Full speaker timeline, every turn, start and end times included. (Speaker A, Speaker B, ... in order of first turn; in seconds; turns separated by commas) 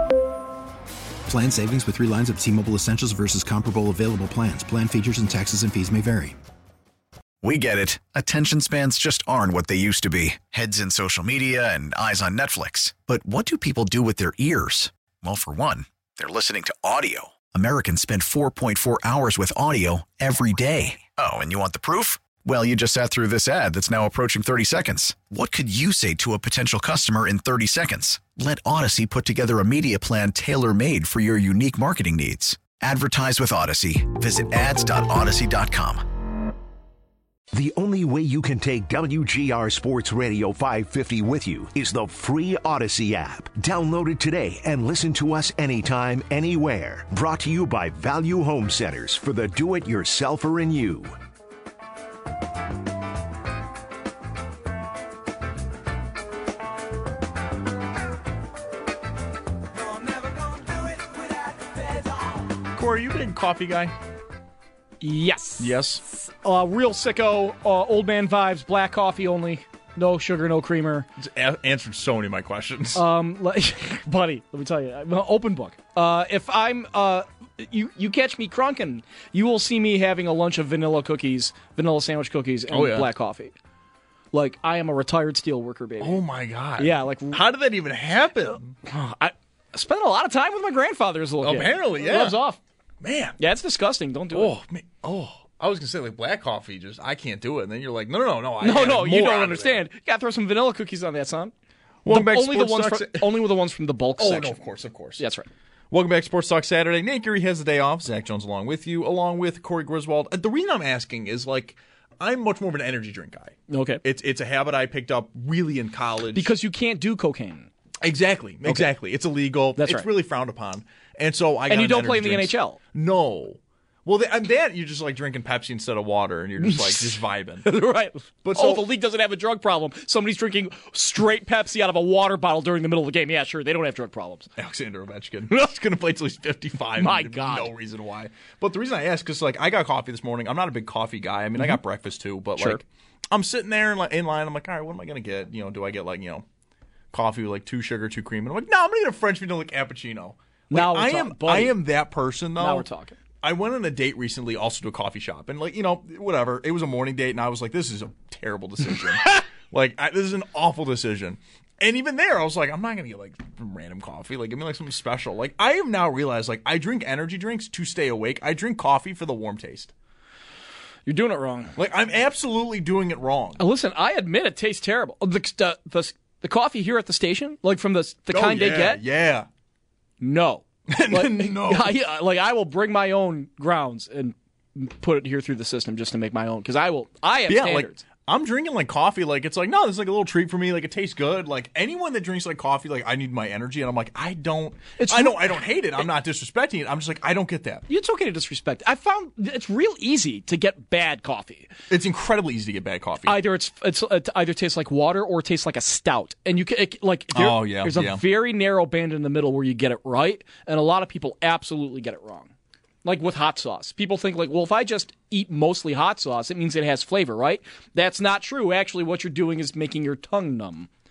Speaker A: 1.2-6.4, Speaker B: 7.4-36.0, Speaker C: 37.5-51.1, Speaker D: 62.7-63.9, Speaker E: 65.0-71.1, Speaker D: 65.6-66.0, Speaker D: 71.2-73.0, Speaker E: 72.9-83.5, Speaker D: 82.7-83.1, Speaker E: 84.3-86.2, Speaker D: 86.0-88.7, Speaker E: 86.8-87.4, Speaker E: 88.8-92.6, Speaker D: 91.4-92.4, Speaker D: 93.0-93.4, Speaker E: 93.4-94.5, Speaker D: 94.3-99.8, Speaker E: 98.6-101.5, Speaker D: 102.0-103.4, Speaker E: 102.1-104.6, Speaker D: 104.2-105.2, Speaker E: 105.2-105.5, Speaker D: 105.9-116.5, Speaker E: 113.7-114.0, Speaker E: 116.3-117.7, Speaker D: 118.0-127.7, Speaker E: 118.6-118.9, Speaker E: 119.8-120.1, Speaker E: 121.7-122.8, Speaker E: 126.6-134.5, Speaker D: 128.4-128.8, Speaker D: 134.6-146.4, Speaker E: 136.9-137.7, Speaker D: 147.1-152.8, Speaker E: 150.7-151.8, Speaker E: 152.6-153.2, Speaker D: 153.4-169.9, Speaker E: 171.1-171.7, Speaker D: 171.8-173.6, Speaker E: 173.6-179.0, Speaker D: 178.3-179.5, Speaker E: 180.2-188.0, Speaker D: 180.9-181.9, Speaker D: 187.5-197.8, Speaker E: 195.0-195.6, Speaker E: 197.9-201.7, Speaker D: 201.9-203.4, Speaker E: 203.2-212.5, Speaker D: 207.3-208.2, Speaker E: 213.0-220.9